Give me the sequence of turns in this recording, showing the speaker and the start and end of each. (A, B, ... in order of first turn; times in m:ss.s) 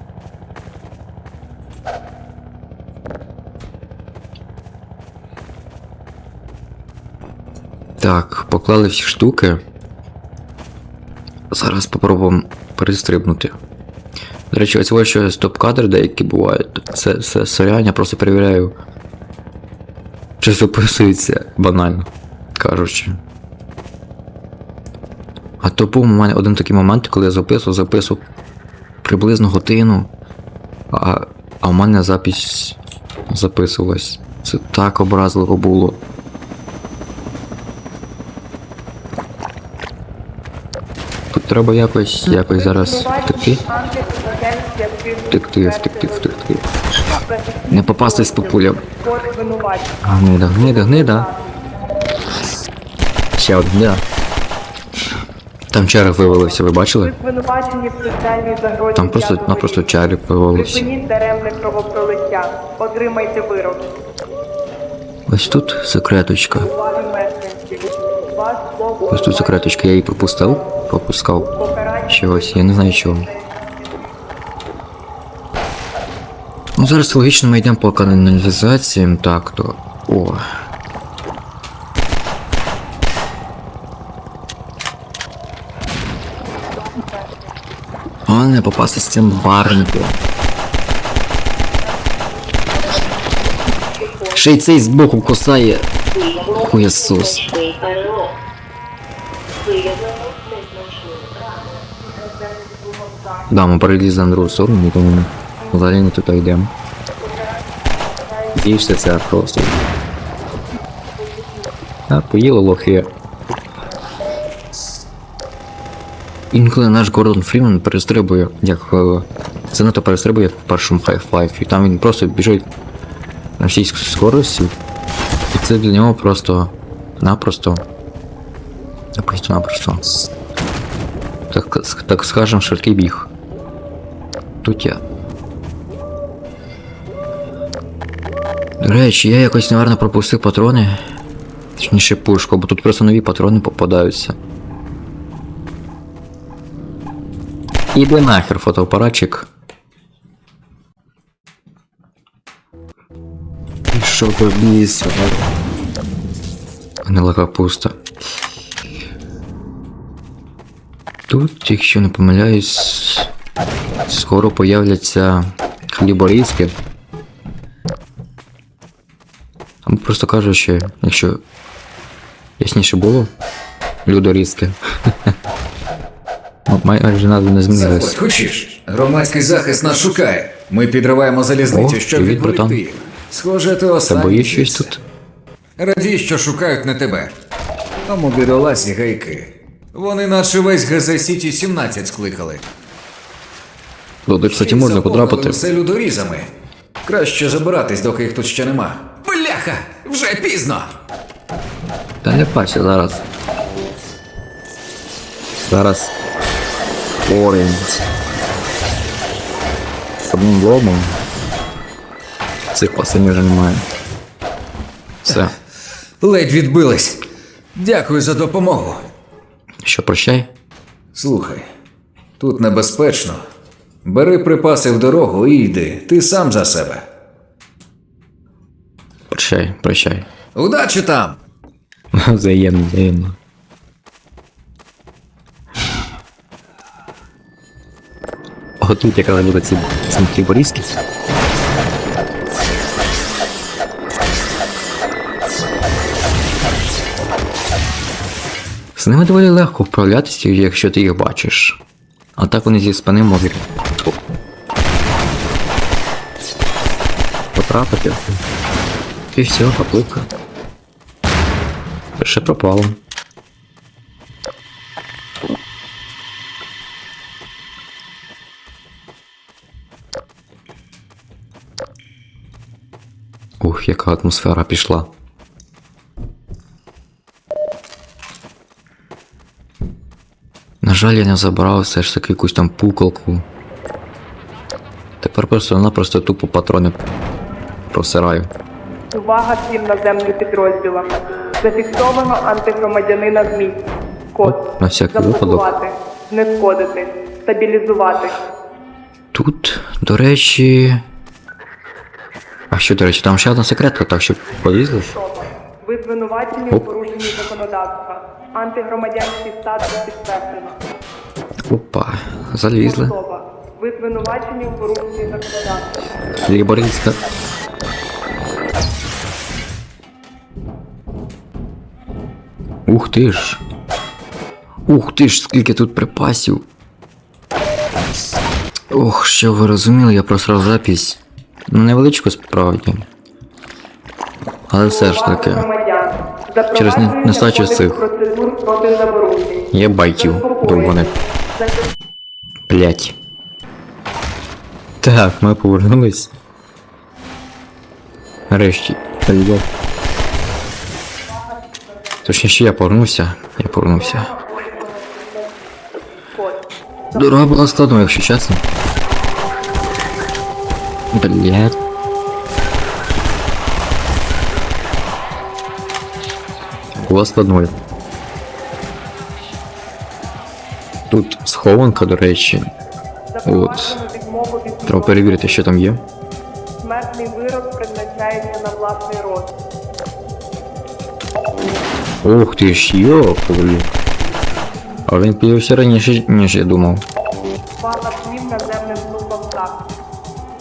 0:08.0-0:09.6 A
0:11.5-0:13.5 A
0:14.5-0:18.8 A
0:20.4-0:23.2 A
0:25.6-0:28.2 A
0:29.0-0:30.1 A
0:30.9-0:32.8 A
0:33.3-0:36.0 A
0:41.3-0:43.6 A
0:42.5-0:46.4 B
0:45.3-0:46.6 A
0:47.1-0:51.6 B
0:47.7-0:48.8 A
0:50.0-0:51.3 A
0:53.4-0:54.0 A
0:55.7-0:57.1 A
0:57.0-0:59.9 B
0:58.9-1:00.8 A
1:00.5-1:03.9 B
1:05.3-1:06.7 A
1:06.6-1:09.7 B
1:09.1-1:11.5 A
1:11.4-1:14.4 B
1:12.1-1:13.3 A
1:16.8-1:20.4 A
1:26.3-1:27.5 B
1:28.3-1:30.2 A
1:31.8-1:32.5 B
1:33.9-1:34.4 B
1:34.3-1:35.8 A
1:36.4-1:37.6 A
1:39.7-1:43.4 B
1:43.5-1:46.7 A
1:47.2-1:48.6 B
1:48.5-1:49.8 A
1:51.2-1:51.7 B
1:52.1-1:53.1 A
1:56.5-2:02.7 A
2:03.6-2:04.7 A
2:05.5-2:07.8 A
2:09.2-2:10.0 A
2:11.5-2:13.3 A
2:14.6-2:15.0 A
2:18.8-2:21.0 A
2:21.8-2:24.4 A
2:27.9-2:29.5 A
2:33.9-2:35.5 A
2:37.0-2:38.0 A
2:41.3-2:43.3 A
2:44.1-2:46.7 A
2:49.8-2:51.4 A
2:52.6-2:53.3 A
2:54.0-2:55.3 A
2:56.7-2:58.2 A
2:57.7-3:04.9 C
3:01.7-3:02.8 A
3:04.0-3:05.0 A
3:05.8-3:07.3 C
3:08.0-3:12.7 C
3:14.2-3:15.6 A
3:14.5-3:16.5 C
3:17.0-3:20.9 C
3:22.2-3:23.2 A
3:25.6-3:26.1 A
3:27.2-3:28.0 A
3:30.2-3:31.2 A
3:32.7-3:33.9 A
3:35.2-3:35.5 A
3:36.2-3:37.2 C
3:37.7-3:39.0 C
3:39.8-3:40.5 A
3:41.1-3:41.6 C
3:42.4-3:43.4 C
3:44.0-3:47.0 C
3:49.3-3:50.3 A
3:50.5-3:51.4 C
3:52.1-3:53.4 A
3:58.8-4:00.9 A
4:09.0-4:11.8 A
4:12.4-4:14.1 A
4:17.5-4:18.4 A
4:19.3-4:20.3 A
4:22.2-4:23.0 A
4:33.6-4:35.1 A
4:40.8-4:43.4 A
4:45.2-4:47.0 A
4:47.9-4:48.5 A
4:49.1-4:58.4 B
4:54.4-4:55.7 A
4:59.3-5:01.0 A
5:02.7-5:05.1 A
5:05.1-5:10.8 B
5:11.6-5:13.1 A
5:12.8-5:15.9 B
5:16.4-5:17.2 A
5:22.9-5:23.6 A
5:24.9-5:26.6 A
5:28.9-5:33.1 A
5:34.7-5:35.7 A
5:34.8-5:41.8 B
5:36.7-5:38.0 A
5:39.7-5:41.1 A
5:42.7-5:43.1 A
5:45.0-5:46.3 A
5:48.5-5:49.6 A
5:51.2-5:52.3 B
5:52.2-5:54.3 A
5:53.8-5:55.6 B
5:56.3-5:57.5 B
5:57.1-5:58.6 A
6:01.1-6:01.8 A
6:07.0-6:07.7 A
6:11.1-6:12.7 A
6:13.3-6:15.6 B
6:13.4-6:14.0 A
6:14.8-6:16.0 A
6:16.8-6:19.6 B
6:22.2-6:23.9 A
6:25.1-6:27.0 A
6:27.8-6:29.9 B